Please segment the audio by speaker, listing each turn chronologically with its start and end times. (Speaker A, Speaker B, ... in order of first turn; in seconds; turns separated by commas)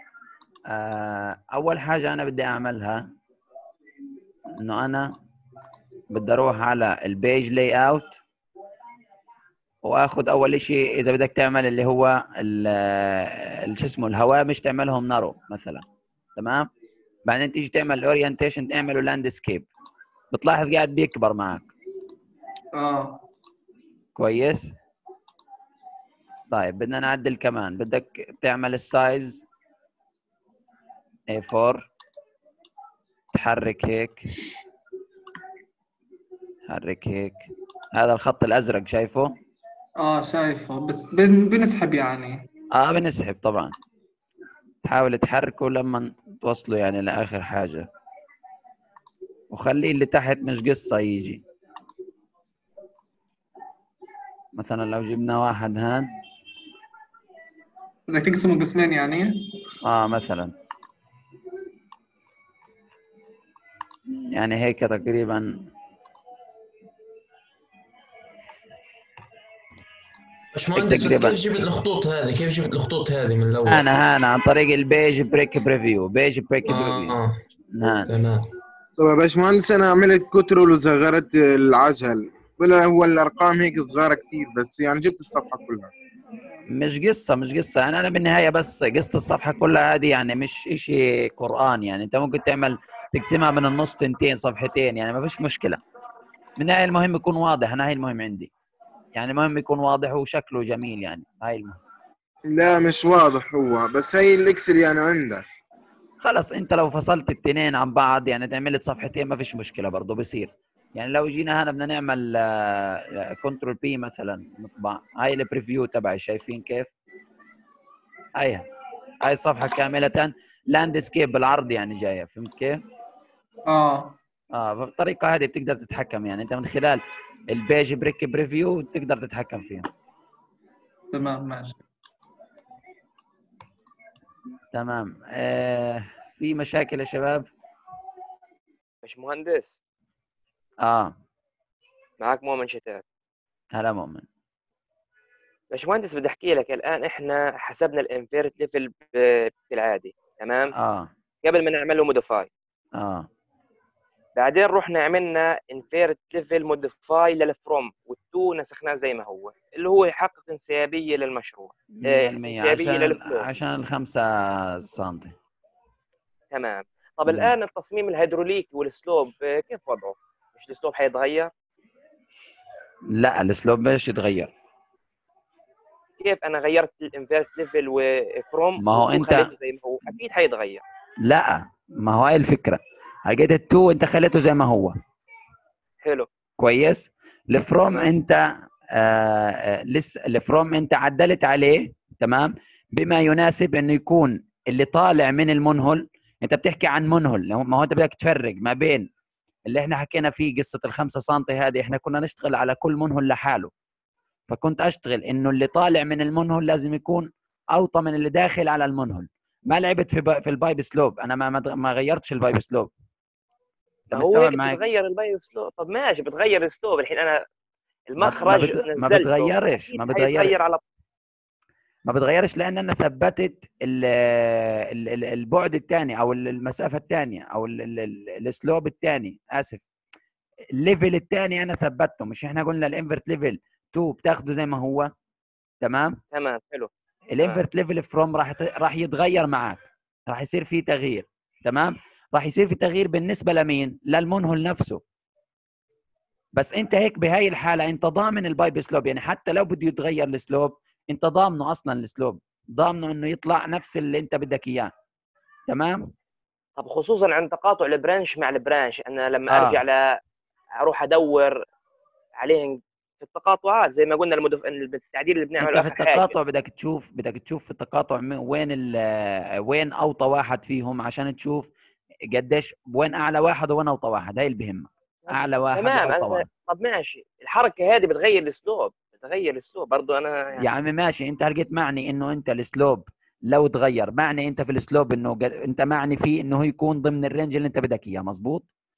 Speaker A: 0.7-3.0, Speaker A: 4.6-5.1, Speaker A: 6.1-8.2, Speaker A: 9.8-15.8, Speaker A: 16.4-16.7, Speaker A: 17.3-19.7, Speaker A: 20.3-21.7, Speaker B: 22.8-23.2, Speaker A: 24.2-24.7, Speaker A: 26.5-29.4, Speaker A: 31.3-31.8, Speaker A: 33.3-34.3, Speaker A: 36.7-39.3, Speaker B: 40.0-42.4, Speaker A: 42.8-43.7, Speaker A: 44.9-47.9, Speaker A: 49.5-51.4, Speaker A: 54.6-56.1, Speaker B: 58.1-59.3, Speaker A: 59.8-60.5, Speaker A: 64.3-65.5, Speaker C: 70.5-73.9, Speaker A: 70.8-71.4, Speaker A: 73.7-77.2, Speaker C: 76.7-77.4, Speaker A: 77.7-78.1, Speaker C: 78.1-78.5, Speaker D: 79.0-85.9, Speaker A: 86.7-95.8, Speaker A: 96.6-98.5, Speaker A: 99.2-101.8, Speaker D: 102.5-105.4, Speaker A: 106.2-116.9, Speaker A: 118.4-118.7, Speaker A: 119.2-122.8, Speaker B: 123.7-124.2, Speaker A: 124.5-129.9, Speaker B: 131.1-131.8, Speaker A: 134.7-137.5, Speaker E: 139.0-139.8, Speaker A: 140.8-141.1, Speaker E: 142.2-143.0, Speaker A: 143.7-144.3, Speaker E: 145.7-150.7, Speaker A: 150.8-151.1, Speaker E: 151.4-152.5, Speaker A: 153.0-153.3, Speaker E: 154.4-163.5, Speaker A: 161.9-165.3, Speaker E: 166.5-171.5, Speaker A: 167.3-167.5, Speaker A: 173.1-174.5, Speaker E: 176.2-180.8, Speaker A: 178.8-179.5, Speaker A: 181.2-184.9, Speaker A: 186.6-188.4, Speaker A: 189.0-199.1, Speaker A: 199.7-203.7, Speaker A: 204.5-212.9, Speaker A: 214.1-214.8, Speaker E: 214.1-217.4, Speaker E: 218.1-220.8, Speaker A: 218.2-220.6, Speaker A: 222.1-229.8, Speaker A: 230.8-235.1, Speaker A: 235.8-236.2, Speaker E: 236.3-237.6, Speaker A: 237.3-245.0, Speaker A: 246.6-254.9, Speaker A: 255.7-256.1, Speaker E: 256.8-260.0, Speaker A: 259.5-259.8, Speaker E: 260.8-261.6, Speaker E: 262.4-266.3, Speaker A: 265.6-271.7, Speaker A: 272.3-276.4, Speaker E: 275.3-280.6, Speaker A: 280.6-288.6